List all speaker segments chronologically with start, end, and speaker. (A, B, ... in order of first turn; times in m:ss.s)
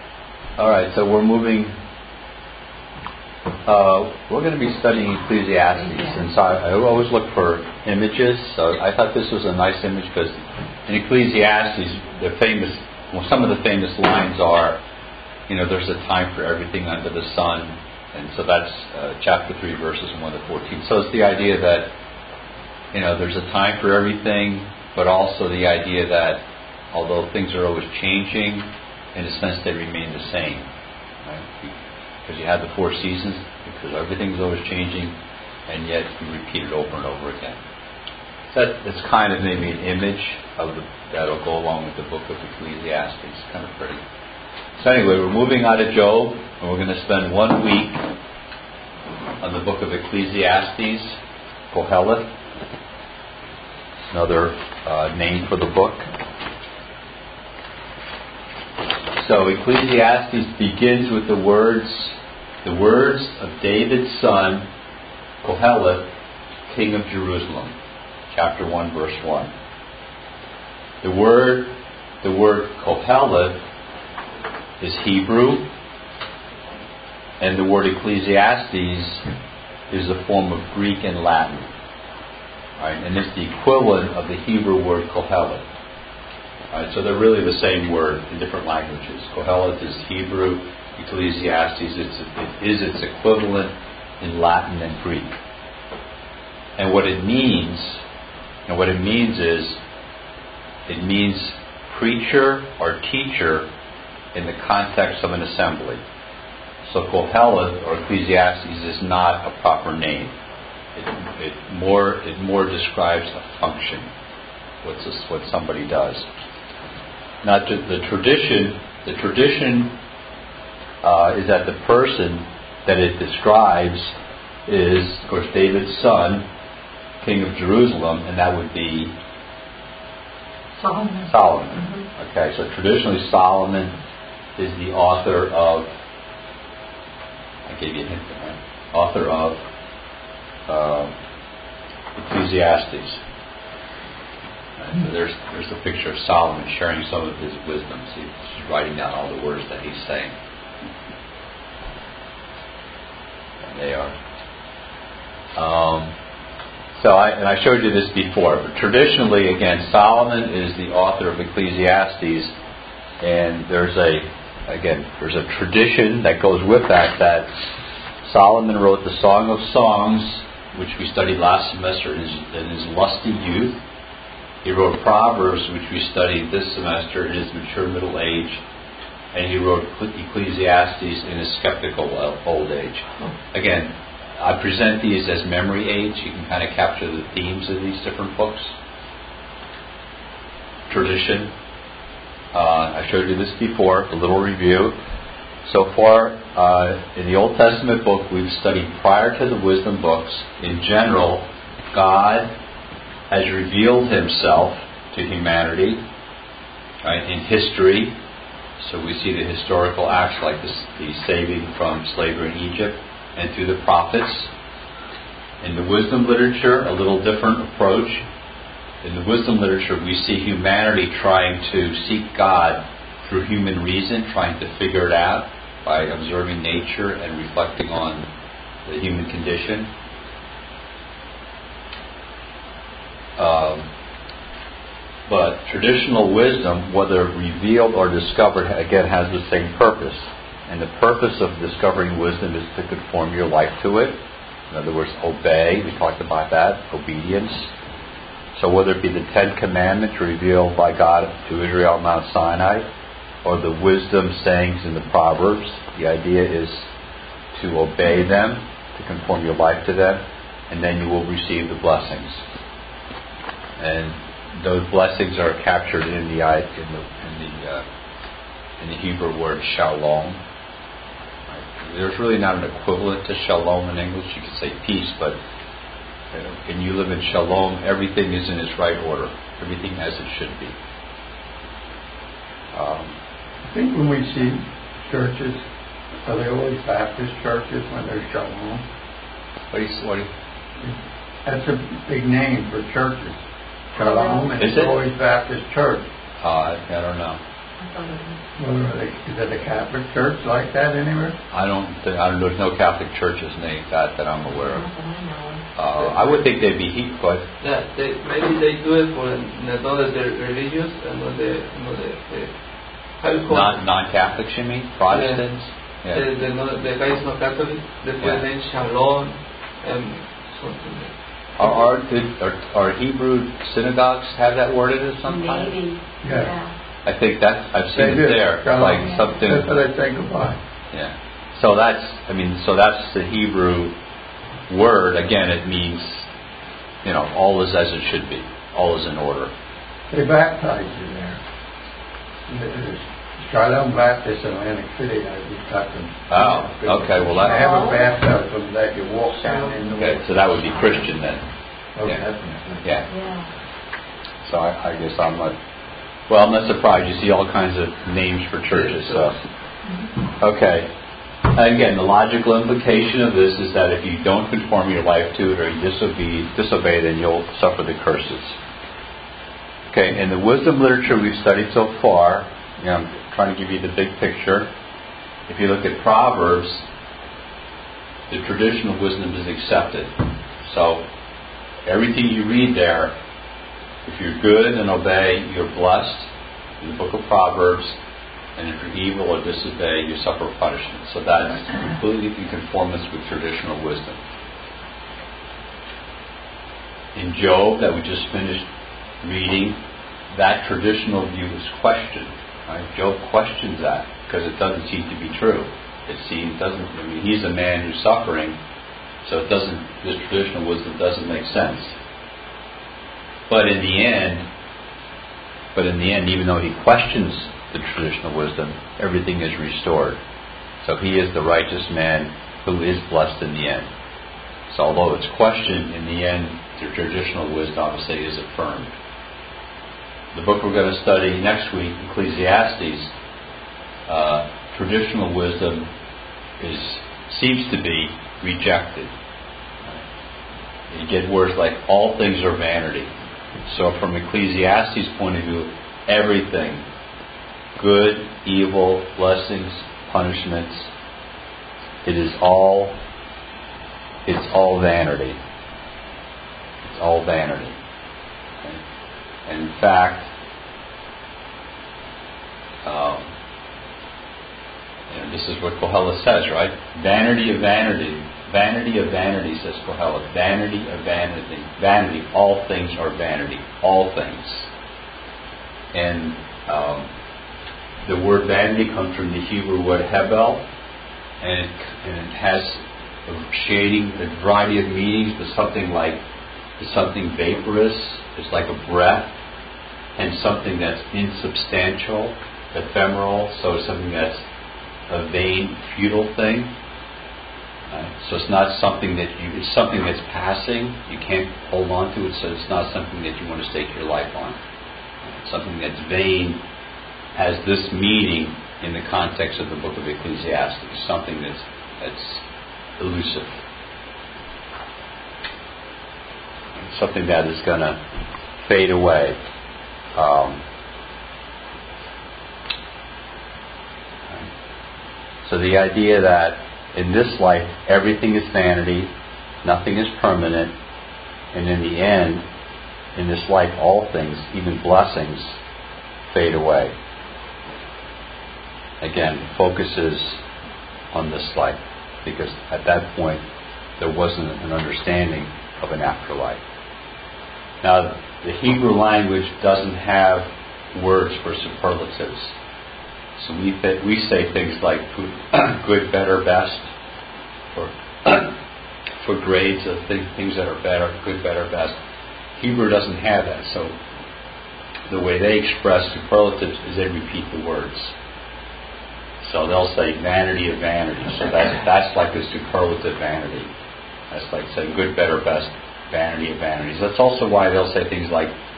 0:00.6-0:01.7 A
0:03.6-0:14.8 A
0:15.5-0:21.9 A
0:22.9-0:30.7 A
0:31.2-0:35.1 A
0:35.7-0:37.6 A
0:38.5-0:44.0 A
0:44.8-0:48.0 A
0:49.4-0:51.2 A
0:51.7-0:52.3 A
0:54.1-0:56.1 A
0:59.2-1:04.7 A
1:05.4-1:06.1 A
1:06.7-1:07.7 A
1:08.3-1:09.5 A
1:11.0-1:13.6 A
1:14.8-1:15.7 A
1:17.4-1:19.2 A
1:19.9-1:21.7 A
1:22.8-1:25.6 A
1:26.7-1:35.4 A
1:36.8-1:38.0 A
1:38.7-1:39.8 A
1:40.9-1:43.7 A
1:44.3-1:46.0 A
1:46.8-1:50.3 A
1:50.9-1:54.1 A
1:54.8-1:56.3 A
1:57.4-1:59.9 A
2:01.0-2:04.1 A
2:04.6-2:06.4 A
2:07.2-2:09.1 A
2:10.8-2:11.2 B
2:11.2-2:13.9 A
2:14.6-2:15.9 A
2:17.6-2:19.6 A
2:20.7-2:21.1 A
2:22.1-2:23.2 A
2:24.8-2:30.4 A
2:33.6-2:34.1 A
2:35.6-2:36.1 A
2:36.9-2:42.5 A
2:43.2-2:47.5 A
2:48.2-2:53.8 A
2:54.6-2:58.6 A
2:59.3-3:08.7 A
3:10.9-3:11.5 A
3:12.5-3:15.0 A
3:15.6-3:22.5 A
3:23.3-3:26.0 A
3:27.0-3:28.1 A
3:28.8-3:34.5 A
3:35.6-3:38.2 A
3:39.0-3:48.3 A
3:48.8-3:49.9 A
3:53.4-3:53.9 A
3:55.3-4:04.2 A
4:04.7-4:07.7 A
4:08.5-4:12.8 A
4:13.4-4:16.9 A
4:17.5-4:22.4 A
4:23.8-4:27.8 A
4:28.8-4:30.4 A
4:31.5-4:35.4 A
4:36.3-4:40.8 A
4:42.7-4:43.1 A
4:43.6-4:45.6 C
4:46.2-4:48.8 C
4:49.7-4:50.3 A
4:50.8-4:53.4 C
4:53.9-4:56.0 C
4:54.0-4:54.5 B
4:54.6-4:55.0 A
4:56.4-4:57.4 A
4:57.8-4:58.4 B
4:58.6-5:01.4 C
5:01.5-5:04.8 A
5:04.6-5:05.6 B
5:05.8-5:07.4 A
5:06.0-5:06.4 D
5:07.6-5:12.5 D
5:13.2-5:13.8 D
5:13.4-5:16.2 A
5:15.1-5:15.4 D
5:16.1-5:21.1 D
5:21.6-5:25.8 A
5:25.2-5:26.7 B
5:26.2-5:26.5 C
5:27.0-5:29.8 A
5:27.9-5:30.6 C
5:30.9-5:33.9 A
5:34.7-5:36.3 A
5:37.0-5:39.5 A
5:40.1-5:41.4 C
5:42.5-5:50.4 C
5:46.3-5:47.8 A
5:47.4-5:48.1 B
5:49.9-5:51.4 A
5:52.0-5:52.9 C
5:53.1-5:53.5 B
5:54.4-5:55.6 A
5:56.3-5:59.4 A
6:00.4-6:00.9 A
6:01.4-6:08.6 A
6:09.9-6:14.7 A
6:15.5-6:16.8 A
6:18.3-6:21.1 A
6:21.8-6:23.1 A
6:24.0-6:28.0 A
6:28.6-6:34.2 A
6:37.1-6:38.7 A
6:39.2-6:39.8 A
6:40.3-6:48.6 A
6:49.2-6:52.0 A
6:53.5-6:54.4 A
6:55.7-7:00.2 A
7:00.8-7:03.9 A
7:04.7-7:08.9 A
7:10.3-7:13.1 A
7:14.1-7:15.9 A
7:16.6-7:19.1 A
7:20.9-7:23.1 A
7:23.6-7:26.8 A
7:27.8-7:30.9 A
7:32.0-7:33.0 A
7:34.2-7:35.4 A
7:36.8-7:37.8 A
7:39.4-7:40.3 A
7:42.8-7:43.3 A
7:45.1-7:54.7 A
7:55.9-7:57.1 A
7:58.0-8:00.6 A
8:01.4-8:06.2 A
8:06.8-8:09.4 A
8:10.2-8:14.4 A
8:15.1-8:16.7 A
8:17.9-8:24.6 A
8:25.2-8:26.6 A
8:27.3-8:32.4 A
8:33.0-8:33.6 A
8:36.8-8:38.0 A
8:38.6-8:39.4 A
8:40.1-8:40.6 A
8:45.4-8:49.1 A
8:49.6-8:50.7 A
8:51.5-8:52.4 A
8:53.1-8:55.6 A
8:56.3-8:56.9 A
8:59.0-9:00.4 A
9:01.1-9:03.4 A
9:04.0-9:06.6 A
9:07.8-9:12.5 A
9:13.4-9:16.9 A
9:17.7-9:18.6 A
9:19.2-9:22.0 A
9:22.6-9:23.9 A
9:25.1-9:28.1 A
9:29.4-9:33.7 A
9:34.3-9:38.5 A